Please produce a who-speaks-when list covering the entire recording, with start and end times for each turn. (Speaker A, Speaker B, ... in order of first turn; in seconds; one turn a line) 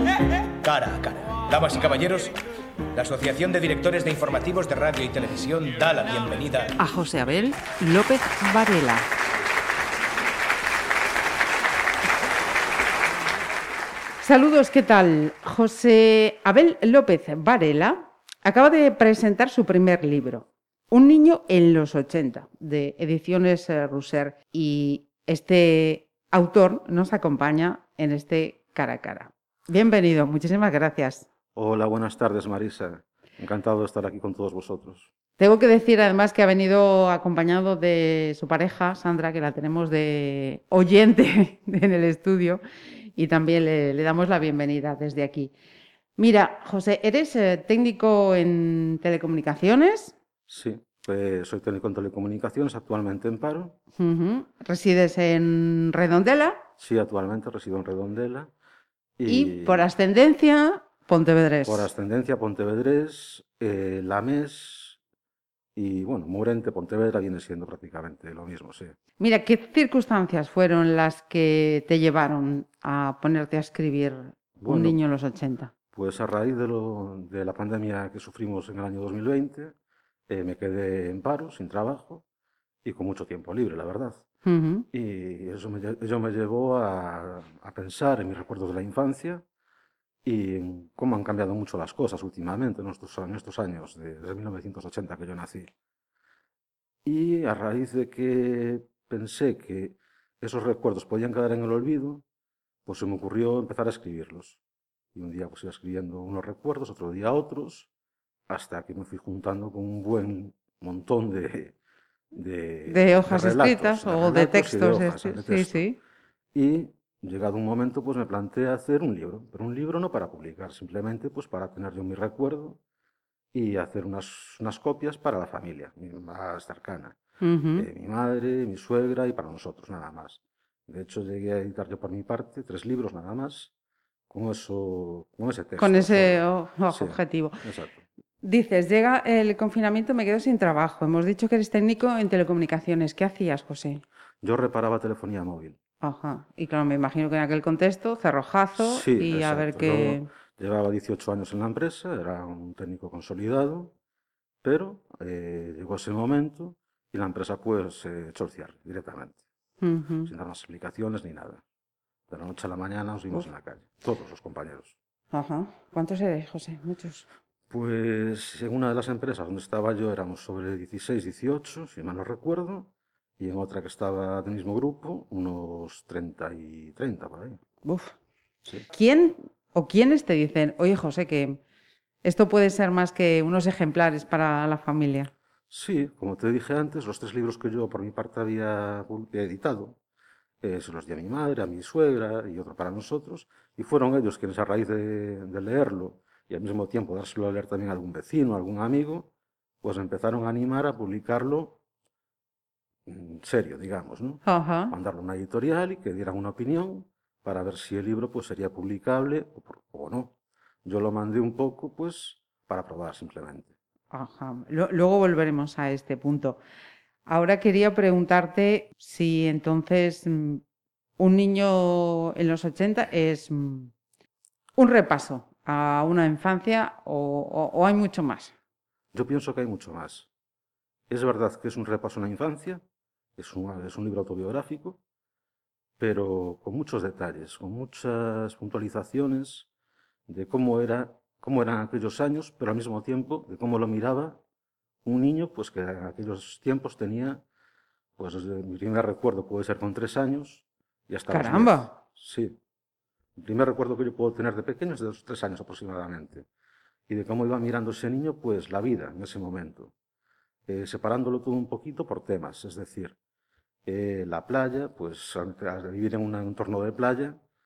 Speaker A: 0.6-2.4
Speaker A: 2.9-6.8
Speaker B: 6.8-9.1
Speaker B: 14.2-31.3
Speaker C: 31.6-35.1
Speaker B: 35.4-42.6
Speaker B: 43.1-45.5
Speaker B: 46.2-50.1
Speaker C: 50.5-53.8
Speaker B: 54.0-56.6
Speaker C: 56.8-58.5
Speaker C: 59.2-59.9
Speaker B: 59.3-61.9
Speaker C: 61.7-65.0
Speaker C: 65.8-69.0
Speaker B: 69.2-75.7
Speaker C: 74.6-75.0
Speaker C: 75.9-79.7
Speaker C: 80.3-82.2
Speaker C: 82.8-84.2
Speaker B: 84.5-84.9
Speaker C: 84.9-89.4
Speaker C: 90.2-95.7
Speaker C: 97.0-102.2
Speaker C: 102.9-104.6
Speaker C: 105.1-107.9
Speaker C: 108.5-111.8
Speaker C: 112.3-115.9
Speaker B: 112.9-116.0
Speaker C: 116.5-122.8
Speaker C: 123.5-127.2
Speaker B: 127.4-127.9
Speaker C: 127.8-133.7
Speaker C: 134.3-138.0
Speaker B: 135.8-137.6
Speaker B: 138.4-144.0
Speaker C: 144.4-145.8
Speaker B: 146.0-150.3
Speaker C: 148.8-153.9
Speaker C: 154.6-159.4
Speaker B: 159.8-160.3
Speaker C: 160.3-161.6
Speaker C: 162.3-165.0
Speaker B: 165.3-167.3
Speaker C: 167.7-177.6
Speaker B: 177.8-178.2
Speaker B: 178.9-181.6
Speaker B: 182.2-185.3
Speaker C: 185.7-190.0
Speaker C: 190.6-199.3
Speaker C: 199.8-201.8
Speaker C: 203.1-210.3
Speaker B: 204.5-204.9
Speaker C: 210.8-213.7
Speaker B: 214.1-216.6
Speaker B: 217.3-220.6
Speaker B: 221.2-223.9
Speaker B: 224.8-228.5
Speaker C: 229.1-230.3
Speaker C: 231.1-232.8
Speaker C: 233.4-235.0
Speaker C: 236.0-239.7
Speaker C: 240.3-244.4
Speaker C: 245.1-247.4
Speaker C: 248.2-252.6
Speaker B: 251.3-252.0
Speaker C: 253.4-256.5
Speaker C: 257.1-259.9
Speaker C: 260.7-263.1
Speaker C: 263.9-267.4